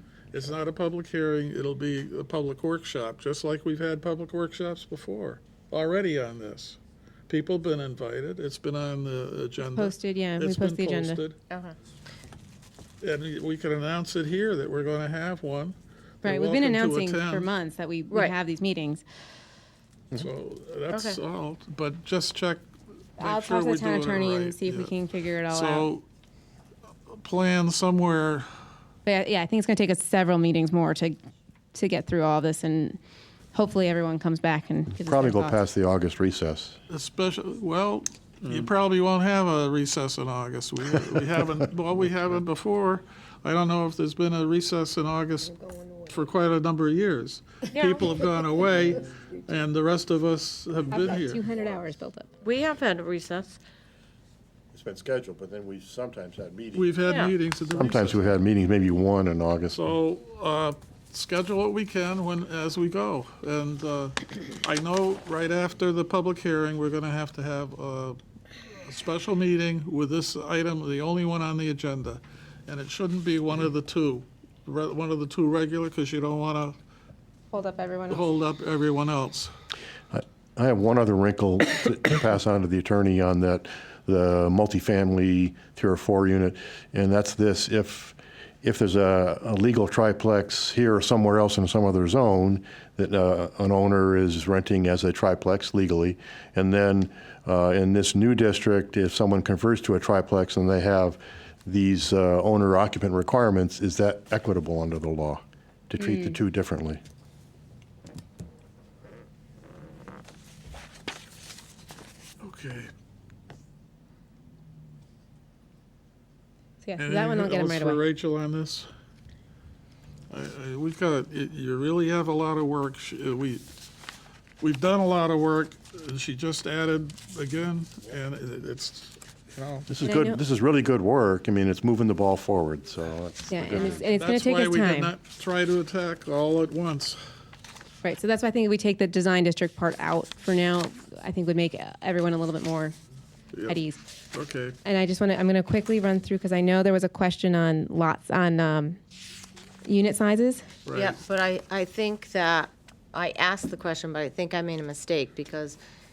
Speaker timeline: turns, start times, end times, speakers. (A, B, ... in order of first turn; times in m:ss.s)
0:00.3-0:06.8 A
0:07.3-0:11.4 A
0:09.8-0:11.2 B
0:11.5-0:11.8 C
0:13.0-0:17.5 A
0:16.2-0:19.0 B
0:18.1-0:18.4 C
0:20.1-0:22.6 A
0:20.9-0:21.2 C
0:23.2-0:24.9 A
0:23.2-0:25.9 B
0:25.5-0:26.0 A
0:27.1-0:28.5 A
0:29.0-0:31.2 B
0:31.7-0:33.0 B
0:33.5-0:35.6 B
0:34.9-0:36.8 D
0:36.9-0:51.4 A
0:50.9-0:52.3 B
0:52.4-0:53.6 C
0:54.7-0:57.1 D
0:56.8-0:58.3 A
0:57.1-0:57.3 C
0:57.7-0:59.8 D
0:59.7-1:08.2 A
1:08.8-1:16.8 A
1:17.5-1:18.3 B
1:18.1-1:19.5 A
1:20.1-1:47.0 D
1:46.0-1:46.4 B
1:52.4-1:52.9 A
1:56.8-1:58.0 B
1:57.0-1:58.9 A
2:00.3-2:03.7 A
2:04.6-2:09.9 A
2:09.9-2:14.0 D
2:10.0-2:10.4 B
2:13.5-2:15.1 B
2:14.0-2:17.2 A
2:18.0-2:23.0 B
2:23.5-2:23.8 A
2:23.7-2:24.0 B
2:24.3-2:24.8 A
2:24.8-2:29.0 B
2:29.8-2:30.7 B
2:30.9-2:31.2 A
2:31.0-2:35.8 C